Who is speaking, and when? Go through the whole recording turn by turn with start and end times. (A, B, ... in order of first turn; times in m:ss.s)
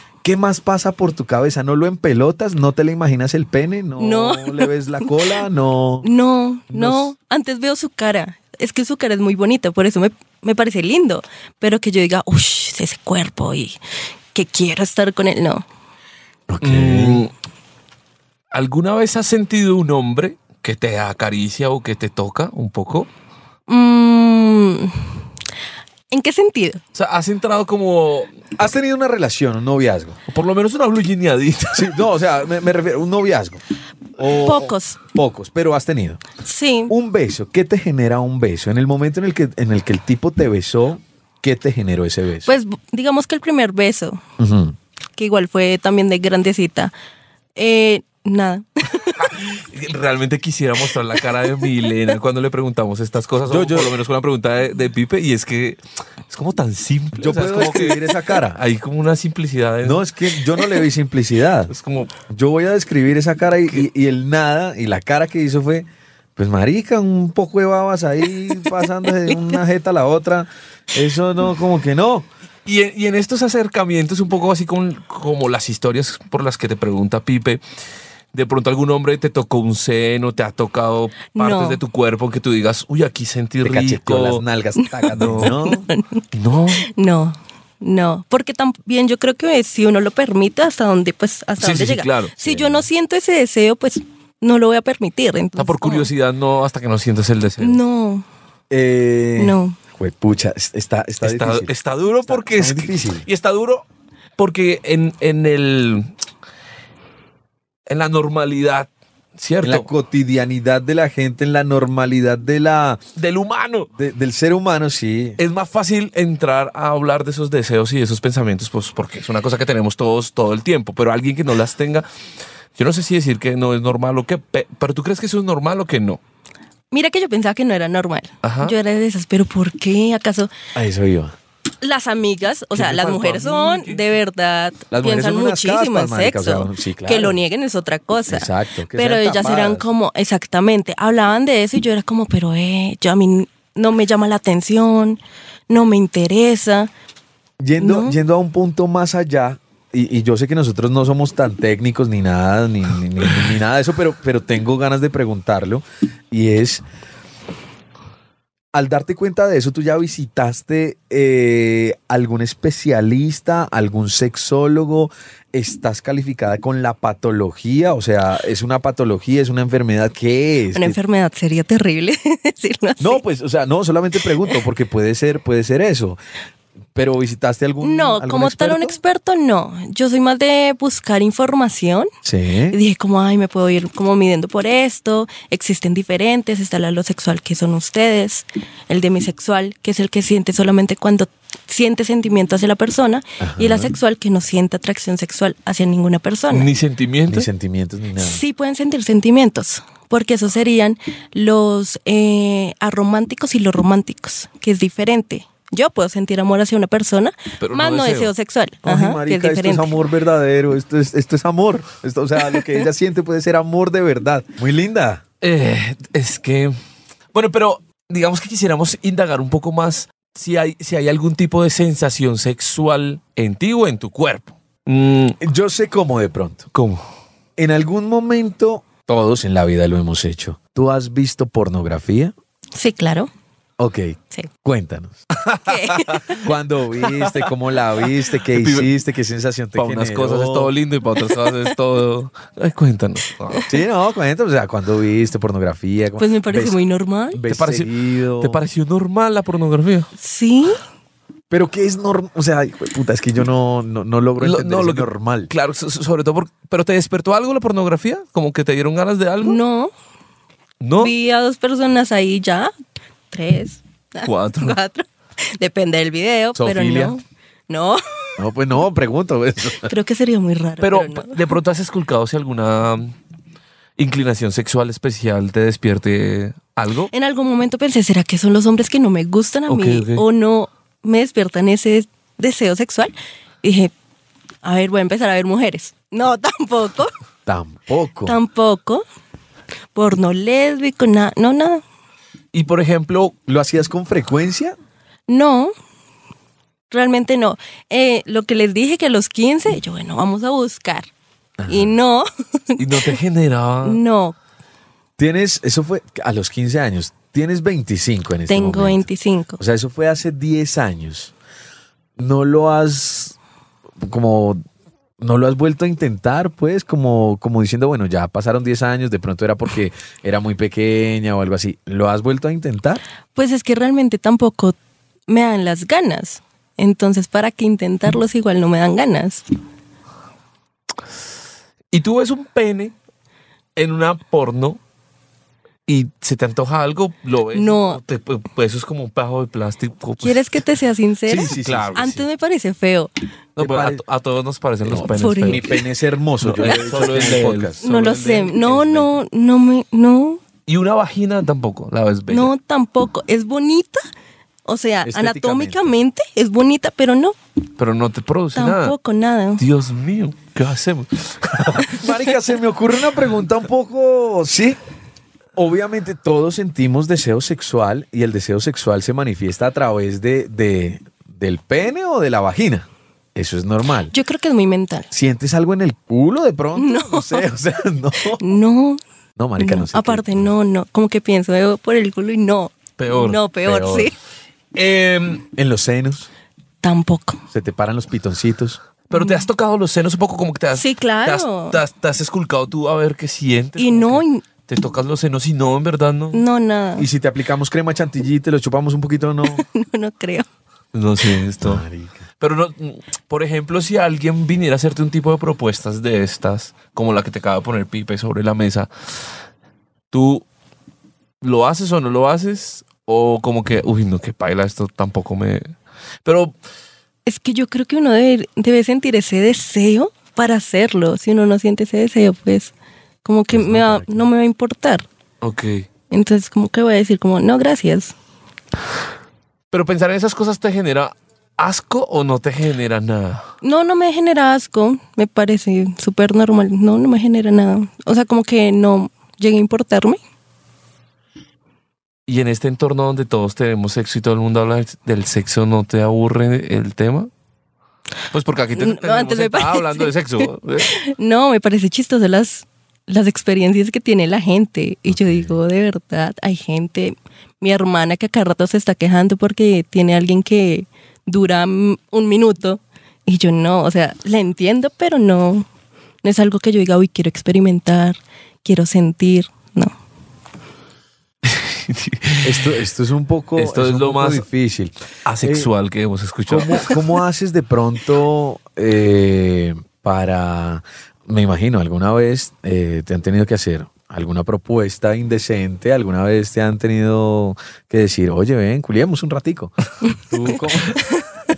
0:00.2-0:06.1 A
0:04.0-0:05.3 B
0:06.0-0:13.8 B
0:06.7-0:07.1 A
0:14.3-0:15.6 B
0:16.5-0:17.2 A
0:16.6-0:17.3 C
0:18.5-0:23.1 C
0:23.7-0:25.2 B
0:26.1-0:26.8 B
0:26.9-0:28.3 C
0:28.6-0:30.2 A
0:30.3-0:32.0 C
0:31.7-0:33.6 A
0:34.2-0:36.2 A
0:34.3-0:35.0 B
0:36.4-0:36.9 B
0:36.9-0:42.5 A
0:42.4-0:44.2 B
0:44.4-0:44.8 A
0:45.2-0:46.9 B
0:47.6-0:49.3 B
0:49.1-1:00.0 C
0:53.5-0:54.0 A
0:57.2-0:58.6 A
0:59.8-1:01.7 A
1:01.7-1:02.1 C
1:02.3-1:12.3 A
1:12.7-1:17.6 C
1:18.3-1:24.4 C
1:21.4-1:21.8 B
1:23.6-1:25.8 A
1:24.8-1:26.2 B
1:25.1-1:25.6 C
1:26.3-1:26.9 C
1:26.8-1:36.1 B
1:31.6-1:32.4 C
1:32.4-1:32.8 A
1:35.6-1:37.8 C
1:37.6-1:38.2 B
1:38.7-1:41.7 A
1:39.4-1:39.8 B
1:41.2-1:43.8 C
1:42.3-1:43.3 A
1:44.4-1:46.1 C
1:47.9-1:49.9 C
1:49.6-1:53.0 A
1:53.2-1:53.9 C
1:54.0-1:55.4 A
1:55.4-2:02.1 C
2:02.8-2:06.2 C
2:06.9-2:10.5 B
2:08.4-2:08.8 C
2:10.8-2:11.4 A
2:11.8-2:26.9 B
2:12.7-2:14.1 C
2:14.9-2:17.4 A
2:18.3-2:19.9 A
2:27.6-2:36.8 A
2:27.8-2:28.2 B
2:38.7-2:51.0 A
2:50.7-2:53.2 B
2:53.0-2:56.2 A
2:57.0-2:59.0 A
2:57.8-3:02.1 B
3:02.2-3:02.8 A
3:02.7-3:16.7 B
3:13.4-3:13.9 A
3:16.5-3:17.5 C
3:17.3-3:18.4 A
3:18.2-3:30.0 B
3:27.6-3:28.3 C
3:28.8-3:35.2 A
3:35.4-3:36.7 C
3:37.3-3:45.4 C
3:45.4-3:46.7 A
3:46.7-3:47.0 C
3:47.6-3:52.3 A
3:52.8-3:53.3 B
3:53.8-3:55.3 A
3:55.3-3:56.4 C
3:55.6-3:56.4 B
3:56.4-4:00.7 A
3:57.0-3:57.5 C
3:58.2-3:58.9 C
3:59.8-4:03.7 C
4:03.7-4:06.8 A
4:06.2-4:07.4 B
4:07.3-4:08.6 A
4:07.5-4:10.1 C
4:10.2-4:10.8 B
4:11.5-4:15.5 A
4:14.4-4:19.6 C
4:19.4-4:19.9 B
4:20.8-4:21.1 C
4:21.0-4:22.7 B
4:23.3-4:28.0 B
4:24.2-4:24.8 C
4:26.6-4:27.2 A
4:28.4-4:29.9 A
4:29.8-4:31.4 B
4:30.8-4:33.2 C
4:34.0-4:37.1 C
4:37.1-4:43.9 B
4:39.7-4:40.2 C
4:44.6-4:47.1 B
4:47.5-4:48.4 A
4:48.3-4:49.0 B
4:49.9-4:51.8 B
4:52.5-4:53.4 C
4:53.5-4:54.8 A
4:55.3-4:55.7 B
4:56.9-5:01.1 B
5:01.6-5:01.9 A
5:01.7-5:03.2 B
5:02.8-5:04.0 C
5:03.8-5:04.4 B
5:05.2-5:09.1 A
5:08.5-5:09.6 B
5:09.6-5:11.3 A
5:12.2-5:13.4 A
5:14.0-5:14.6 A
5:15.2-5:23.0 A
5:23.4-5:24.8 B
5:25.3-5:29.4 B
5:31.9-5:32.9 C
5:33.8-5:34.8 C
5:35.9-5:40.6 C
5:37.5-5:38.0 B
5:40.2-5:43.1 B
5:41.3-5:42.2 A
5:41.3-5:42.2 C
5:43.6-5:45.7 C
5:43.6-5:44.0 A
5:44.8-5:47.8 A
5:45.0-5:45.8 B
5:46.4-5:49.1 C
5:47.8-5:50.4 B
5:50.7-5:52.5 C
5:52.3-5:54.0 B
5:54.7-5:57.4 B
5:55.0-5:55.9 A
5:57.8-5:59.0 C
5:58.6-5:59.6 B
5:59.6-6:02.0 C
6:01.8-6:04.8 A
6:05.6-6:14.1 A
6:14.1-6:15.1 B
6:15.1-6:18.4 A
6:16.8-6:17.4 B
6:18.4-6:19.0 B
6:19.4-6:20.5 A
6:19.6-6:24.2 B
6:23.0-6:23.4 C
6:23.6-6:24.1 A
6:24.8-6:25.5 C
6:25.5-6:26.3 A
6:26.8-6:27.4 B
6:27.5-6:28.8 A
6:29.1-6:36.4 C
6:29.1-6:29.5 B
6:30.8-6:31.8 B
6:33.8-6:34.4 B
6:36.3-6:37.1 B
6:37.0-6:39.6 A
6:39.5-6:40.5 B
6:40.9-6:41.8 C
6:41.6-6:42.2 A
6:42.4-6:48.9 C
6:50.1-6:50.4 C
6:51.4-6:55.7 C
6:56.2-6:56.5 C
6:57.3-7:02.7 B
7:03.2-7:05.0 B
7:03.5-7:04.3 A
7:05.4-7:05.9 C
7:06.1-7:08.2 B
7:09.7-7:13.5 C
7:13.6-7:20.2 B
7:22.3-7:27.3 C
7:28.3-7:30.9 C
7:28.8-7:45.7 B
7:35.1-7:35.6 A
7:46.2-7:49.9 B
7:51.4-7:52.8 C
7:52.4-7:55.7 A
7:53.6-7:54.4 C
7:55.3-7:57.0 C
7:56.5-8:11.1 A